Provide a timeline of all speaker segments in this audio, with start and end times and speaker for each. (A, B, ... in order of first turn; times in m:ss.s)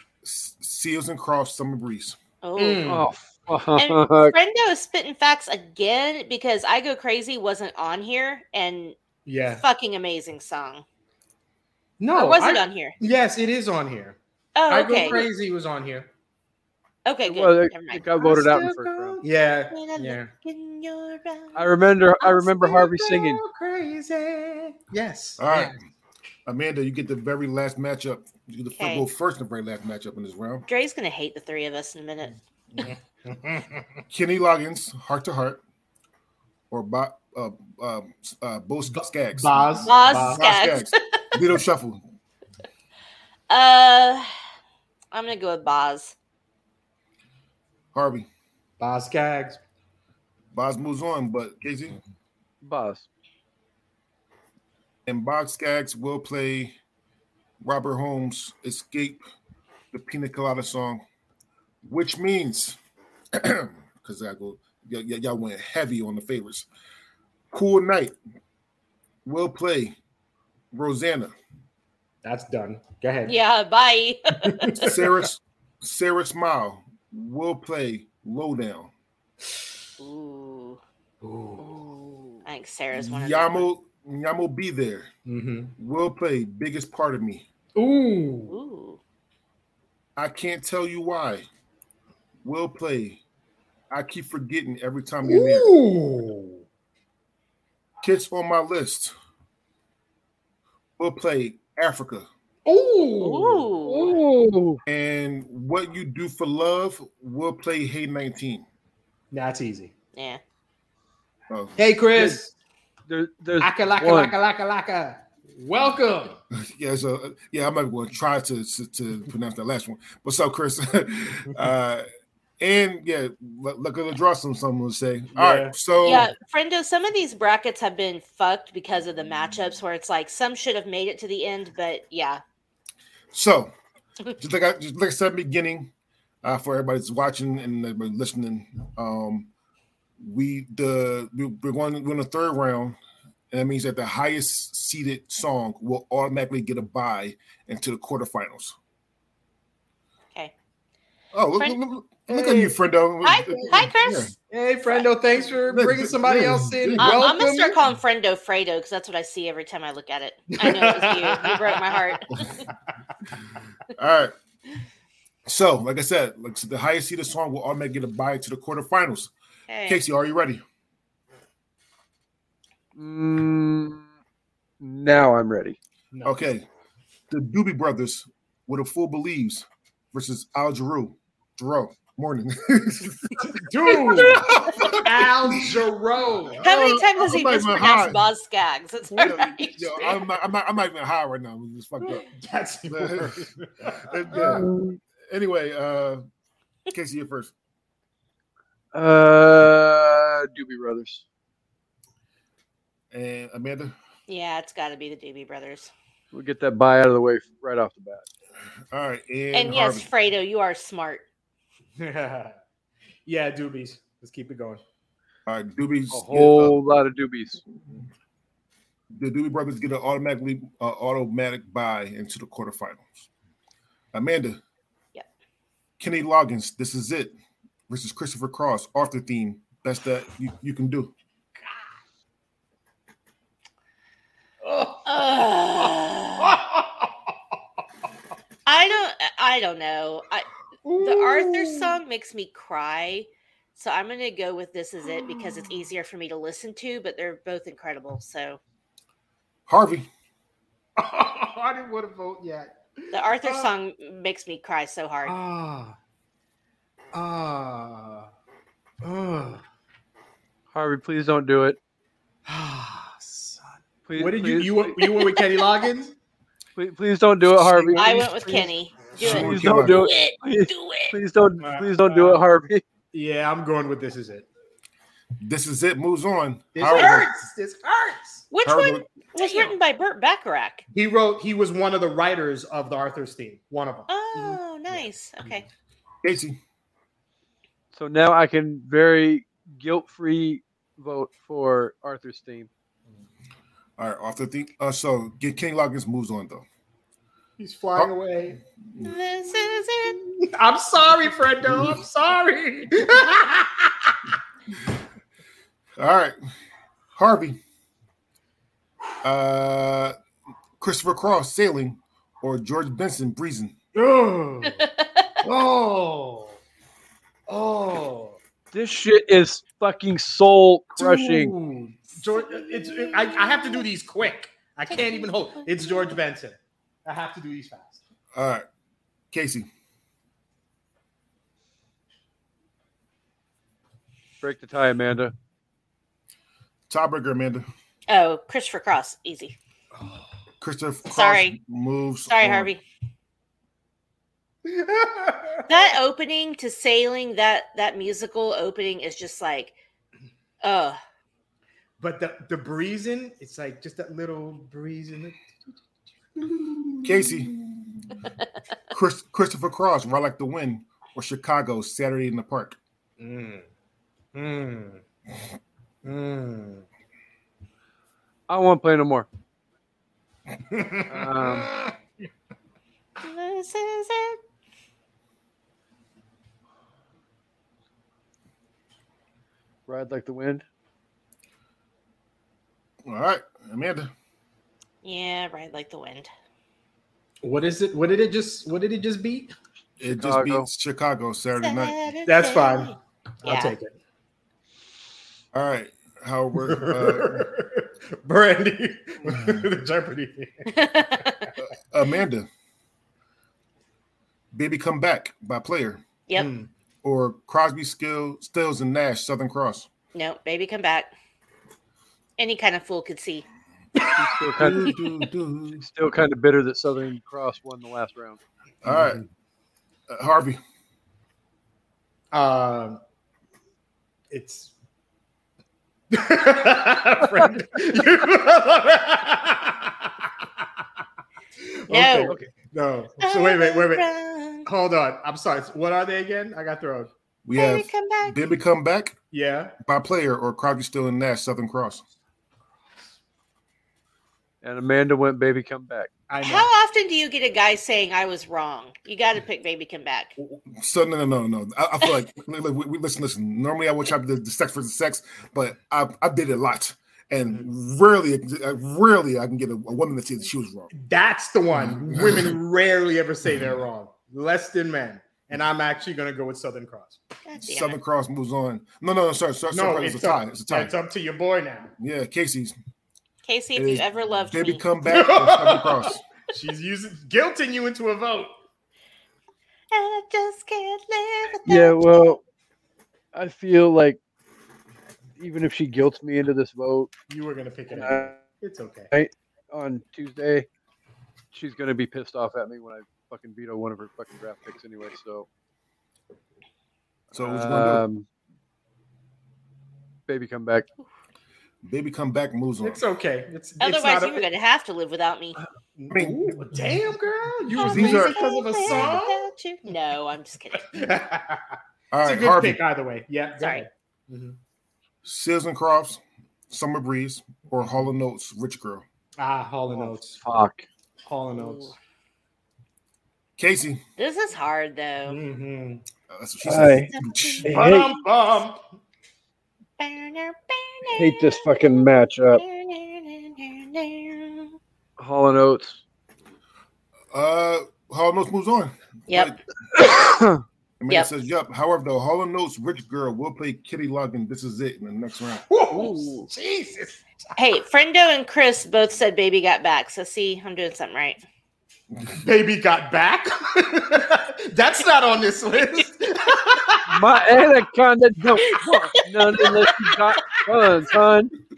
0:00.2-0:02.2 A
0:02.4-0:02.9 B
0:02.6-0:03.1 C
0:02.8-0:04.3 D
0:03.8-0:09.0 B
0:09.2-0:09.6 C
0:09.5-0:10.8 B
0:12.0-0:14.2 C
0:12.1-0:13.0 B
0:14.5-0:15.3 B
0:14.7-0:16.1 C
0:17.0-0:18.1 B
0:17.2-0:19.2 D
0:18.1-0:20.3 C
0:19.7-0:22.8 B
0:21.5-0:23.4 D
0:22.6-0:25.8 C
0:25.4-0:25.8 A
0:26.5-0:30.7 A
0:28.7-0:29.0 B
0:30.7-0:32.4 B
0:32.8-0:34.0 C
0:34.1-0:35.6 A
0:36.7-0:42.0 A
0:38.9-0:40.4 C
0:39.8-0:41.2 B
0:43.5-0:44.3 B
0:45.1-0:46.1 B
0:47.9-0:48.3 A
0:48.8-0:49.6 C
0:50.5-0:52.0 A
0:52.6-0:53.1 D
0:55.0-0:56.8 A
0:57.6-0:59.2 A
0:59.9-1:01.0 A
1:01.8-1:02.8 A
1:03.3-1:06.7 A
1:07.5-1:08.2 A
1:09.2-1:10.0 A
1:10.7-1:11.3 A
1:12.2-1:13.4 C
1:13.2-1:14.9 B
1:14.4-1:15.1 C
1:14.8-1:18.9 A
1:20.0-1:20.8 B
1:21.2-1:21.7 C
1:21.6-1:22.4 D
1:22.4-1:23.7 B
1:22.9-1:25.1 A
1:25.2-1:25.7 C
1:25.8-1:27.5 A
1:27.7-1:28.6 C
1:28.5-1:29.0 B
1:30.2-1:31.5 A
1:32.4-1:33.2 A
1:33.9-1:35.7 A
1:35.2-1:36.6 C
1:38.0-1:39.1 A
1:41.0-1:42.3 A
1:42.6-1:43.8 C
1:43.2-1:44.2 B
1:43.8-1:44.8 D
1:44.8-1:48.6 A
1:49.3-1:49.9 C
1:50.1-1:50.4 B
1:51.8-1:52.5 C
1:52.1-1:52.4 D
1:53.1-1:54.4 D
1:53.6-1:56.4 C
1:56.5-2:02.0 A
2:02.6-2:06.3 A
2:05.3-2:05.7 C
2:06.0-2:12.4 B
2:13.3-2:13.7 A
2:14.4-2:15.9 A
2:16.4-2:19.5 A
2:20.2-2:23.0 A
2:23.5-2:28.7 A
2:31.3-2:34.3 A
2:31.6-2:34.4 B
2:34.4-2:37.8 C
2:34.9-2:35.5 B
2:35.7-2:37.4 A
2:37.0-2:42.6 B
2:40.5-2:42.2 C
2:43.9-2:44.3 A
2:45.4-2:49.3 A
2:49.7-2:50.0 B
2:49.8-2:50.6 A
2:52.9-2:54.0 D
2:54.8-2:55.8 D
2:56.1-2:56.4 C
2:56.2-2:56.6 A
2:57.3-3:05.8 A
3:03.4-3:06.6 C
3:06.6-3:08.2 A
3:06.6-3:10.2 B
3:09.2-3:12.2 A
3:12.1-3:14.5 C
3:12.9-3:13.4 A
3:14.0-3:14.7 A
3:14.3-3:15.0 D
3:15.3-3:16.2 A
3:16.9-3:17.5 A
3:18.9-3:21.2 D
3:23.1-3:23.9 A
3:24.3-3:25.9 B
3:26.3-3:28.2 D
3:28.9-3:30.1 A
3:29.5-3:31.2 B
3:32.0-3:32.6 C
3:33.2-3:34.8 C
3:35.4-3:36.8 A
3:36.1-3:37.6 D
3:39.2-3:43.3 A
3:44.1-3:44.6 A
3:46.0-3:47.3 A
3:47.9-3:51.1 A
3:54.6-3:57.1 C
3:55.0-3:56.6 B
3:58.6-4:00.5 B
4:00.8-4:02.0 C
4:01.0-4:08.6 B
4:05.2-4:05.7 C
4:09.7-4:10.1 A
4:11.0-4:13.7 C
4:13.1-4:15.3 B
4:15.2-4:16.0 C
4:17.1-4:18.3 C
4:19.0-4:19.6 C
4:20.7-4:21.8 D
4:22.4-4:26.1 C
4:24.1-4:25.2 D
4:26.8-4:28.6 D
4:27.9-4:31.1 B
4:27.9-4:28.6 C
4:29.2-4:32.8 D
4:29.2-4:30.1 A
4:31.6-4:32.4 C
4:33.1-4:34.5 C
4:35.4-4:37.3 A
4:36.7-4:38.4 C
4:36.9-4:37.2 B
4:38.5-4:40.8 B
4:38.6-4:39.1 A
4:39.4-4:39.7 C
4:40.9-4:45.6 C
4:44.1-4:45.6 B
4:46.2-4:46.6 A
4:47.9-4:52.7 D
4:54.0-4:56.6 A
4:57.6-4:58.6 C
4:59.0-5:00.2 B
5:00.1-5:04.2 C
5:06.0-5:06.4 A
5:07.1-5:07.6 A
5:09.2-5:10.1 A
5:10.8-5:13.8 A
5:13.9-5:14.8 C
5:14.6-5:15.4 B
5:15.4-5:16.6 C
5:17.5-5:18.4 C
5:18.7-5:21.5 D
5:21.0-5:28.0 C
5:22.3-5:23.8 B
5:24.9-5:26.2 B
5:28.3-5:28.7 A
5:29.3-5:29.7 A
5:34.4-5:35.3 D
5:36.9-5:37.6 A
5:38.1-5:39.6 B
5:40.0-5:40.2 C
5:40.6-5:42.7 A
5:41.1-5:41.6 B
5:42.3-5:42.8 B
5:44.6-5:45.8 C
5:45.7-5:49.8 B
5:50.6-5:51.0 B
5:52.0-5:55.4 C
5:56.4-5:57.5 C
5:57.0-5:57.5 A
5:58.9-6:02.8 A
6:03.2-6:03.6 C
6:04.3-6:05.0 C
6:06.0-6:06.8 C
6:08.5-6:09.3 D
6:10.7-6:11.9 C
6:11.1-6:11.7 D
6:13.2-6:14.4 B
6:19.9-6:20.6 D
6:23.0-6:24.1 A
6:25.0-6:26.3 B
6:27.4-6:29.5 C
6:30.0-6:32.0 A
6:30.0-6:30.7 D
6:31.6-6:32.9 B
6:32.2-6:33.9 C
6:33.4-6:33.7 B
6:35.5-6:37.5 A
6:36.6-6:40.7 C
6:39.2-6:39.7 A
6:40.7-6:41.5 B
6:41.9-6:42.5 A
6:44.5-6:46.0 A
6:46.4-6:46.7 C
6:47.0-6:49.9 A
6:50.1-6:51.1 B
6:52.4-6:53.4 B
6:54.2-6:55.0 D
6:54.6-6:55.9 A
6:55.8-6:58.4 D
6:58.8-6:59.2 A
7:00.1-7:00.6 A
7:02.3-7:03.0 C
7:04.3-7:04.7 C
7:06.1-7:10.3 C
7:11.6-7:14.1 C
7:11.9-7:12.3 B
7:13.2-7:14.7 B
7:14.6-7:17.1 C
7:17.4-7:19.2 A
7:17.5-7:18.4 B
7:19.3-7:19.8 C
7:19.8-7:22.0 A
7:24.6-7:26.1 D
7:26.3-7:26.7 C
7:26.4-7:30.3 B
7:30.4-7:40.9 A
7:40.9-7:47.2 C
7:41.7-7:42.6 A
7:47.4-7:48.0 B
7:47.6-7:50.9 A
7:49.7-7:51.9 C
7:52.0-7:52.7 A
7:53.4-7:54.8 B
7:53.7-7:56.2 A
7:55.1-7:58.5 C
7:59.9-8:02.3 B
8:01.6-8:02.4 D
8:03.3-8:04.2 D
8:05.4-8:07.1 D
8:07.3-8:09.1 C
8:07.9-8:08.3 D
8:09.1-8:10.7 D
8:11.5-8:15.5 D
8:17.3-8:18.0 A
8:17.3-8:18.2 D
8:20.3-8:20.9 D
8:21.8-8:23.0 A
8:22.8-8:24.5 C
8:23.8-8:25.6 B
8:26.0-8:29.5 C
8:26.1-8:26.6 A
8:27.7-8:31.1 B
8:27.8-8:29.1 A
8:30.8-8:34.6 C
8:32.1-8:32.8 A
8:33.6-8:33.8 B
8:35.2-8:39.0 A
8:39.4-8:40.4 C
8:40.4-8:40.8 D
8:41.2-8:41.9 C
8:43.6-8:44.0 A
8:44.2-8:45.4 B
8:45.2-8:46.0 C
8:46.3-8:47.7 A
8:46.6-8:47.1 D
8:47.0-8:47.9 B
8:47.6-8:48.2 D
8:47.6-8:48.8 C
8:50.0-8:54.8 B
8:51.1-8:52.6 D
8:55.2-8:56.0 D
8:57.3-9:00.2 A
8:59.3-9:00.3 B
9:00.1-9:00.6 D
9:01.0-9:05.6 A
9:05.7-9:07.2 C
9:05.9-9:06.4 B
9:07.6-9:11.4 B
9:12.3-9:17.2 C
9:17.1-9:21.5 D
9:18.7-9:19.0 B
9:19.5-9:20.2 B